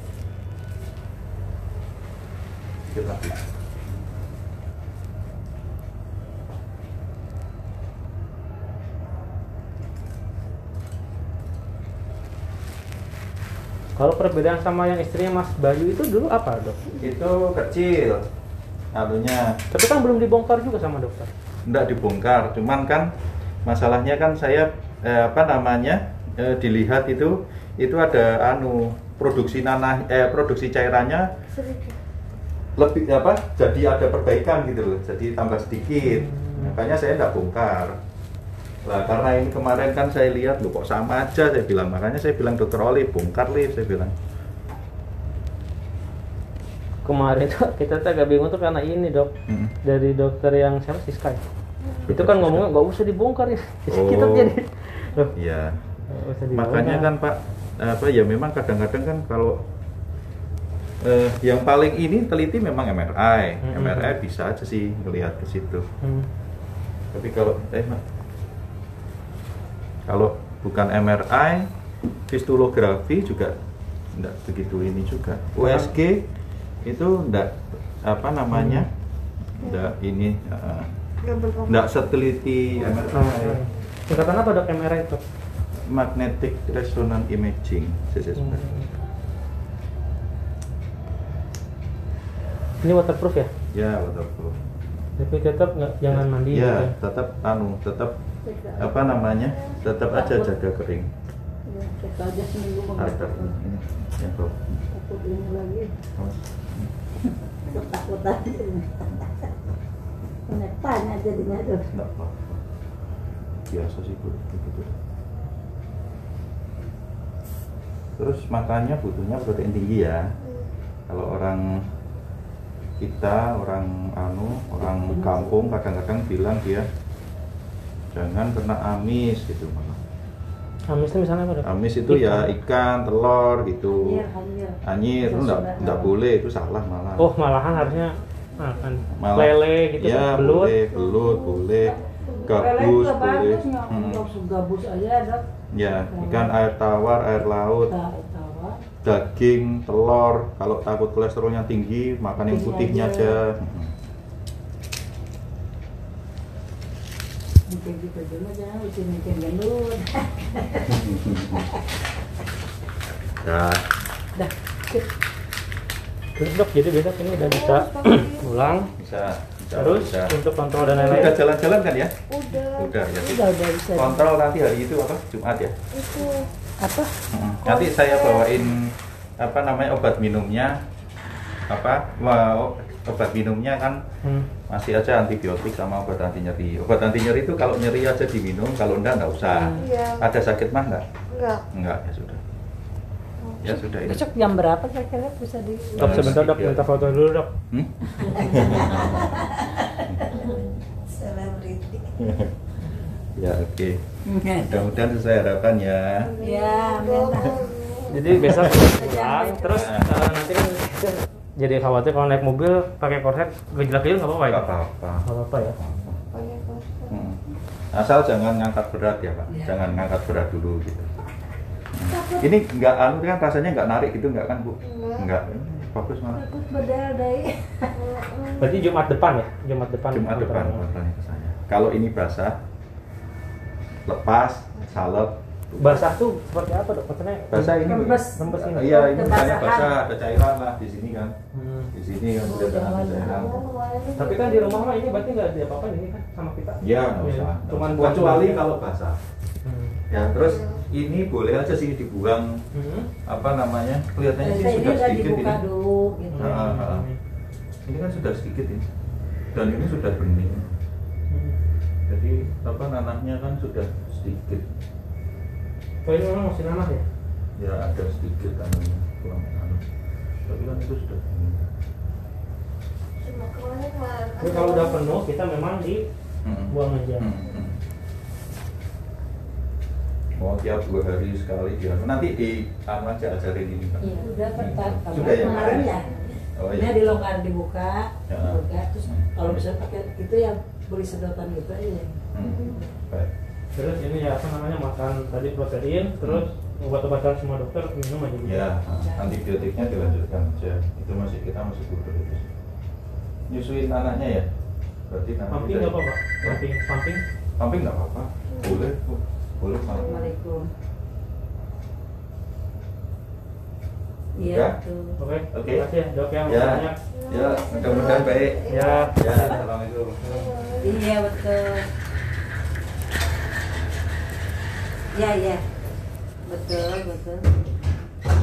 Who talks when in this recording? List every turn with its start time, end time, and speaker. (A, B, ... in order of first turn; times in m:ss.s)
0:02.9-0:03.4 A
0:14.0-0:16.8 B
0:17.0-0:18.2 A
0:18.9-0:19.6 A
0:19.7-0:21.3 B
0:21.6-0:23.1 A
0:23.6-0:31.3 A
0:31.5-0:32.0 C
0:32.8-0:38.0 A
0:36.0-0:36.8 B
0:38.8-0:44.1 A
0:47.0-0:49.3 B
0:49.5-0:49.8 A
0:49.8-0:51.4 B
0:52.1-0:52.7 A
0:52.1-0:55.4 B
0:53.9-0:54.6 A
0:55.4-0:55.9 A
0:56.1-0:57.1 B
0:56.5-0:59.6 A
1:01.0-1:05.8 A
1:03.6-1:04.2 B
1:06.0-1:06.3 B
1:07.1-1:08.0 A
1:10.1-1:11.7 A
1:12.3-1:13.6 A
1:14.1-1:16.2 A
1:15.6-1:15.9 B
1:16.8-1:18.9 A
1:18.5-1:18.9 B
1:19.6-1:20.9 A
1:21.2-1:21.8 C
1:21.7-1:23.6 A
1:23.1-1:25.2 B
1:25.8-1:28.6 A
1:28.4-1:28.9 B
1:32.8-1:33.5 B
1:33.7-1:34.6 A
1:35.2-1:36.9 B
1:36.1-1:38.2 A
1:38.4-1:39.1 D
1:38.8-1:41.1 A
1:39.5-1:39.8 C
1:40.1-1:40.5 D
1:41.7-1:43.5 D
1:43.0-1:44.8 A
1:44.9-1:45.9 D
1:46.2-1:46.9 A
1:47.6-1:49.3 D
1:50.5-1:51.9 D
1:51.9-1:52.6 A
1:53.7-1:54.9 A
1:58.2-2:00.4 A
2:00.4-2:00.7 C
2:01.1-2:01.8 A
2:03.0-2:06.9 A
2:04.8-2:05.7 D
2:08.1-2:10.0 A
2:10.9-2:12.6 B
2:11.6-2:14.3 A
2:14.0-2:16.2 D
2:14.8-2:17.3 A
2:17.2-2:20.8 B
2:19.1-2:24.3 A
2:20.9-2:21.6 C
2:21.8-2:26.5 D
2:25.7-2:27.9 A
2:27.4-2:28.8 D
2:29.0-2:33.9 A
2:32.4-2:33.4 D
2:37.7-2:41.8 D
2:40.9-2:41.7 A
2:43.2-2:43.9 A
2:44.4-2:45.1 D
2:46.4-2:48.9 B
2:47.3-2:48.9 C
2:49.0-2:50.4 A
2:49.8-2:51.3 B
2:51.0-2:51.3 D
2:51.0-2:52.1 A
2:52.3-2:53.1 C
2:52.8-2:55.8 A
2:53.2-2:54.3 D
2:55.9-2:56.5 C
2:56.8-2:57.2 D
2:57.3-3:00.8 A
2:57.6-2:58.6 C
3:01.7-3:04.0 A
3:04.7-3:11.0 A
3:09.5-3:09.9 D
3:09.8-3:10.3 C
3:11.3-3:11.6 C
3:11.7-3:12.4 A
3:13.4-3:13.8 C
3:13.6-3:14.2 A
3:14.0-3:16.3 D
3:16.0-3:17.2 A
3:16.0-3:17.5 B
3:17.7-3:19.4 A
3:18.2-3:22.2 D
3:20.1-3:20.6 A
3:22.2-3:22.5 A
3:23.4-3:24.0 A
3:24.3-3:24.9 D
3:24.5-3:26.3 A
3:26.2-3:28.7 C
3:26.4-3:27.7 D
3:28.1-3:34.7 B
3:28.3-3:28.8 A
3:28.7-3:29.9 D
3:29.8-3:30.1 A
3:34.5-3:36.2 A
3:35.2-3:35.8 B
3:36.3-3:37.2 C
3:37.1-3:37.4 A
3:37.9-3:41.1 A
3:39.5-3:40.0 D
3:41.9-3:46.4 A
3:42.1-3:42.5 D
3:44.8-3:45.3 C
3:46.3-3:48.0 D
3:48.0-3:48.9 C
3:48.6-3:50.8 B
3:50.1-3:52.6 A
3:54.1-3:56.1 A
3:55.8-3:57.8 B
3:57.5-4:01.4 A
3:57.7-3:59.9 D
3:58.4-3:59.3 B
4:01.5-4:01.9 B
4:01.9-4:03.6 A
4:02.4-4:03.6 D
4:03.2-4:05.1 C
4:04.2-4:08.7 B
4:06.8-4:09.2 A
4:09.6-4:10.0 B
4:10.1-4:12.6 A
4:10.1-4:10.8 C
4:12.7-4:13.1 B
4:13.3-4:15.6 A
4:14.4-4:16.5 D
4:16.3-4:17.2 B
4:16.4-4:17.1 A
4:17.9-4:18.9 A
4:19.5-4:20.7 A
4:21.3-4:21.6 B
4:22.1-4:24.7 A
4:26.0-4:27.0 B
4:27.6-4:29.9 A
4:30.4-4:31.7 A
4:33.2-4:35.1 C
4:34.4-4:36.1 B
4:36.4-4:37.8 A
4:36.7-4:37.3 B
4:40.4-4:45.9 A
4:44.0-4:52.2 D
4:46.6-4:47.1 A
4:48.3-4:49.6 A
4:52.3-4:53.3 A
4:52.4-4:52.8 C
4:53.8-4:58.7 B
4:58.4-5:02.5 A
4:59.0-4:59.4 D
4:59.5-5:00.2 C
5:03.5-5:04.5 A
5:05.1-5:06.6 A
5:05.5-5:07.2 B
5:07.6-5:10.2 A
5:08.5-5:08.9 C
5:09.9-5:10.3 C
5:10.0-5:10.7 D
5:14.4-5:15.2 D
5:14.4-5:14.8 A
5:15.2-5:17.0 B
5:15.5-5:15.9 A
5:16.4-5:20.4 A
5:17.1-5:19.5 C
5:18.7-5:19.4 B
5:20.2-5:21.0 C
5:20.8-5:21.9 D
5:25.1-5:25.6 D
5:26.4-5:27.5 D